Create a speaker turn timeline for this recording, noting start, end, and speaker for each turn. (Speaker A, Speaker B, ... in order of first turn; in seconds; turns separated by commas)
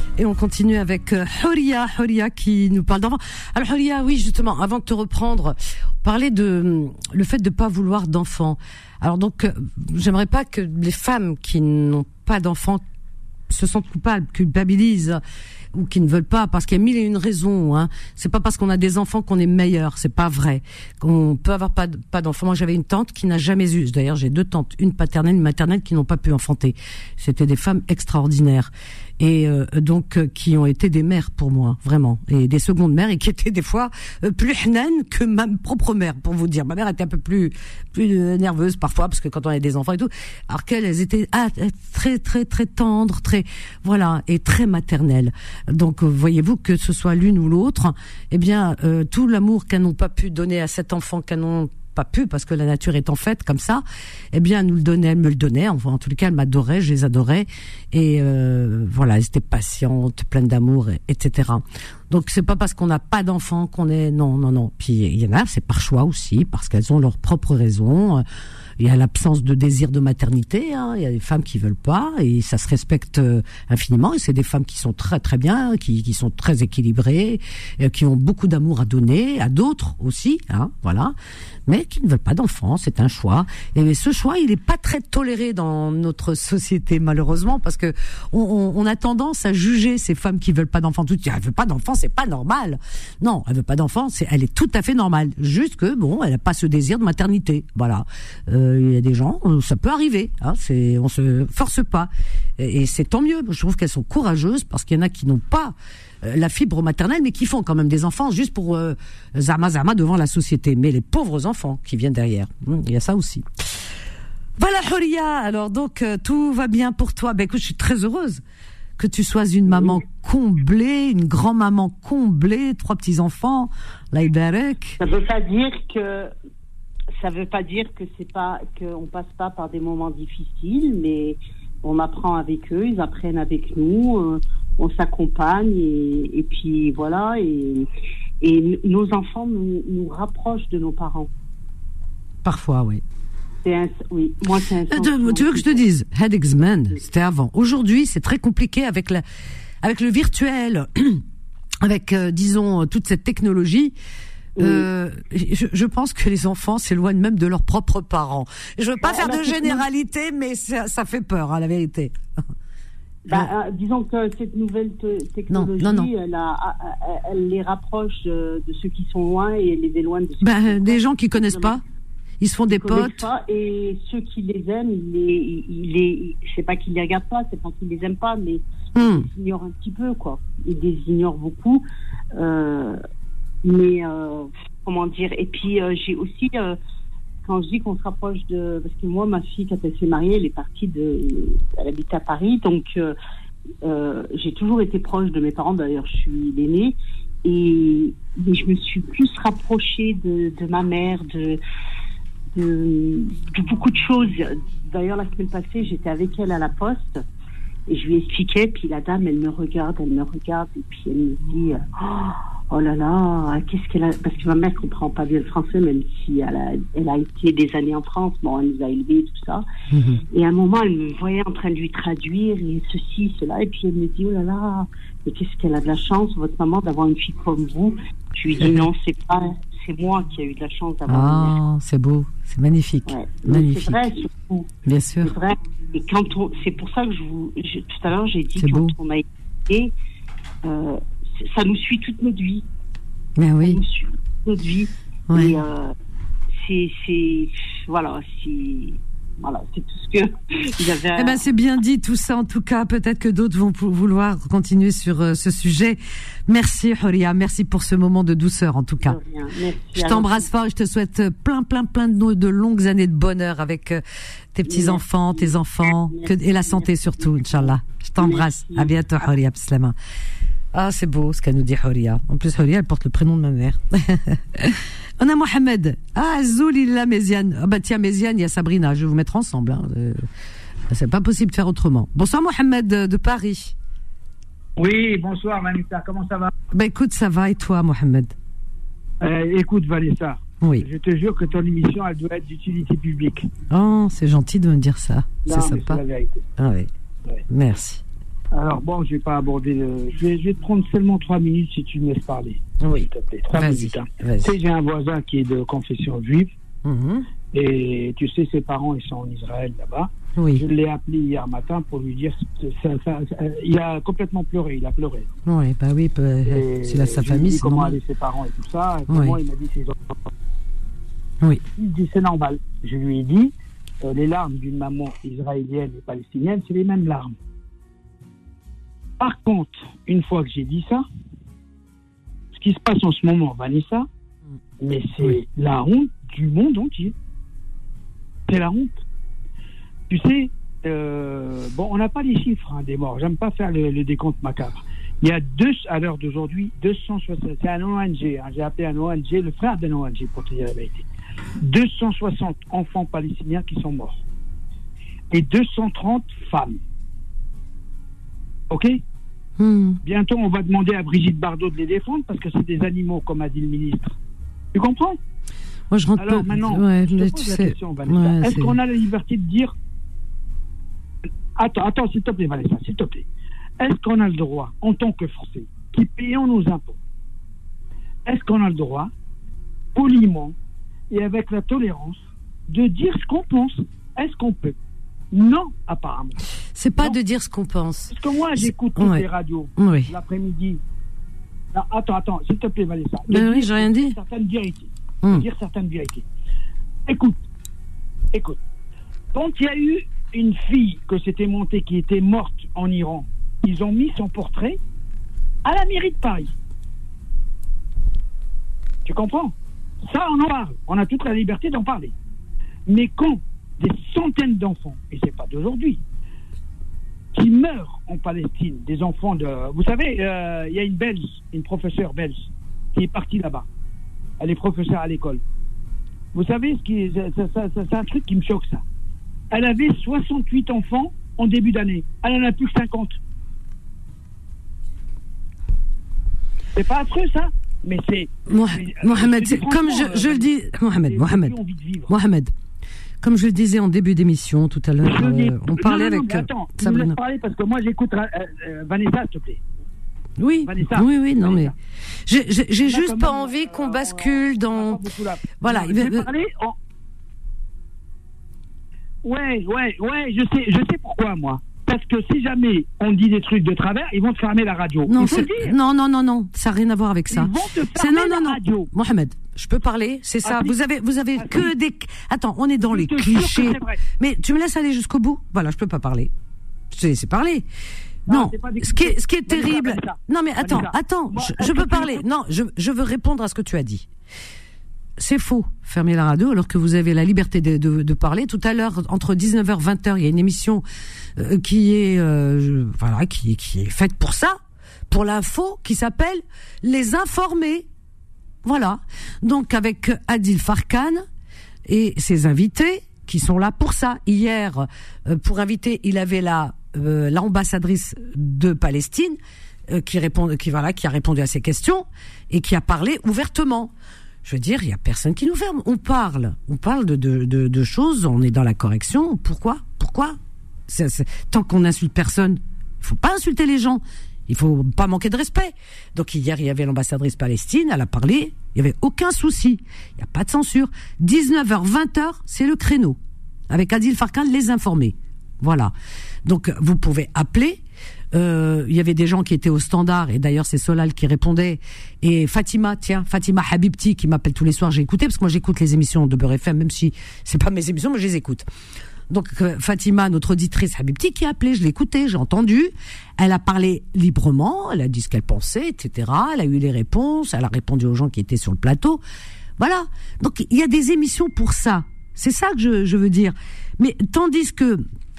Speaker A: 0.2-12.8, Speaker A: 13.5-15.2, Speaker A: 15.7-68.2, Speaker A: 68.8-81.1, Speaker A: 81.7-113.5, Speaker A: 114.6-118.4, Speaker A: 119.0-125.0, Speaker B: 119.7-120.0, Speaker B: 125.0-126.3, Speaker B: 127.2-137.9, Speaker B: 138.4-141.3, Speaker A: 142.4-143.0, Speaker B: 143.6-145.8, Speaker A: 144.9-149.2, Speaker A: 149.8-151.2, Speaker A: 151.8-153.9, Speaker B: 154.6-154.9, Speaker A: 154.6-162.4, Speaker B: 159.0-159.8, Speaker B: 163.3-171.8, Speaker A: 165.5-166.1, Speaker A: 170.4-171.8, Speaker A: 172.4-173.3, Speaker B: 172.7-183.0, Speaker A: 179.0-179.3, Speaker B: 183.6-186.8, Speaker B: 187.4-193.2, Speaker B: 193.8-201.6, Speaker B: 202.5-207.2, Speaker B: 207.9-219.6, Speaker A: 219.9-220.2, Speaker B: 220.3-231.6, Speaker A: 228.6-228.9, Speaker A: 231.1-234.0, Speaker B: 233.1-239.9, Speaker A: 234.8-235.3, Speaker A: 238.6-238.9, Speaker B: 240.6-242.7, Speaker A: 243.4-243.8, Speaker B: 243.6-245.9, Speaker A: 245.3-245.6, Speaker B: 246.5-251.4, Speaker A: 251.1-259.2, Speaker B: 259.0-260.5, Speaker A: 259.9-264.0, Speaker A: 264.5-269.9, Speaker B: 264.7-268.9, Speaker A: 270.7-280.3, Speaker A: 280.9-283.8, Speaker C: 284.8-286.5, Speaker A: 286.7-288.4, Speaker C: 289.2-293.5, Speaker A: 290.6-290.9, Speaker A: 293.7-296.0, Speaker C: 295.4-296.5, Speaker A: 296.6-296.9, Speaker A: 297.5-298.0, Speaker C: 298.5-306.5, Speaker A: 302.8-304.6, Speaker A: 306.8-307.3, Speaker C: 307.5-315.3, Speaker A: 310.4-310.7, Speaker A: 315.5-318.0, Speaker C: 316.5-320.2, Speaker A: 319.1-319.4, Speaker C: 321.8-327.3, Speaker C: 329.2-331.0, Speaker C: 332.5-334.1, Speaker C: 334.8-337.1, Speaker C: 338.5-339.0, Speaker C: 340.1-351.1, Speaker C: 351.6-354.2, Speaker C: 355.3-356.8, Speaker C: 358.7-359.0, Speaker A: 359.6-360.0, Speaker C: 360.0-364.2, Speaker C: 364.7-365.2, Speaker A: 365.9-368.8, Speaker C: 366.2-369.8, Speaker C: 371.6-373.3, Speaker C: 373.8-377.0, Speaker C: 378.3-379.1, Speaker C: 379.9-380.6, Speaker C: 381.1-384.8, Speaker C: 385.3-386.4, Speaker A: 386.8-390.1, Speaker C: 388.1-390.8, Speaker C: 391.7-396.3, Speaker A: 393.3-394.2, Speaker C: 397.1-397.4, Speaker C: 398.3-398.6, Speaker C: 399.3-404.8, Speaker C: 405.6-406.5, Speaker C: 409.1-409.6, Speaker C: 410.1-412.1, Speaker C: 412.9-416.0, Speaker C: 417.3-423.7, Speaker C: 424.4-425.4, Speaker C: 426.3-428.8, Speaker C: 429.5-433.2, Speaker C: 436.7-440.5, Speaker A: 438.5-441.6, Speaker C: 441.1-442.1, Speaker A: 442.1-442.5, Speaker A: 443.2-447.2, Speaker C: 445.0-449.6, Speaker A: 450.4-451.7, Speaker C: 450.6-451.7, Speaker A: 452.2-455.0, Speaker C: 452.9-456.8, Speaker A: 455.6-456.3, Speaker C: 459.2-465.7, Speaker A: 465.1-476.3, Speaker C: 467.3-468.9, Speaker C: 470.4-470.8, Speaker C: 471.4-471.7, Speaker C: 472.8-474.0, Speaker A: 476.9-477.6, Speaker A: 478.3-484.1, Speaker C: 478.3-482.2, Speaker A: 485.2-490.8, Speaker A: 491.4-494.6, Speaker A: 495.1-497.9, Speaker A: 498.6-501.2, Speaker A: 501.9-509.4, Speaker A: 509.9-513.9, Speaker A: 514.4-533.2, Speaker A: 533.7-535.9, Speaker A: 536.5-537.8, Speaker A: 538.3-548.7, Speaker A: 549.3-559.2, Speaker A: 559.8-565.0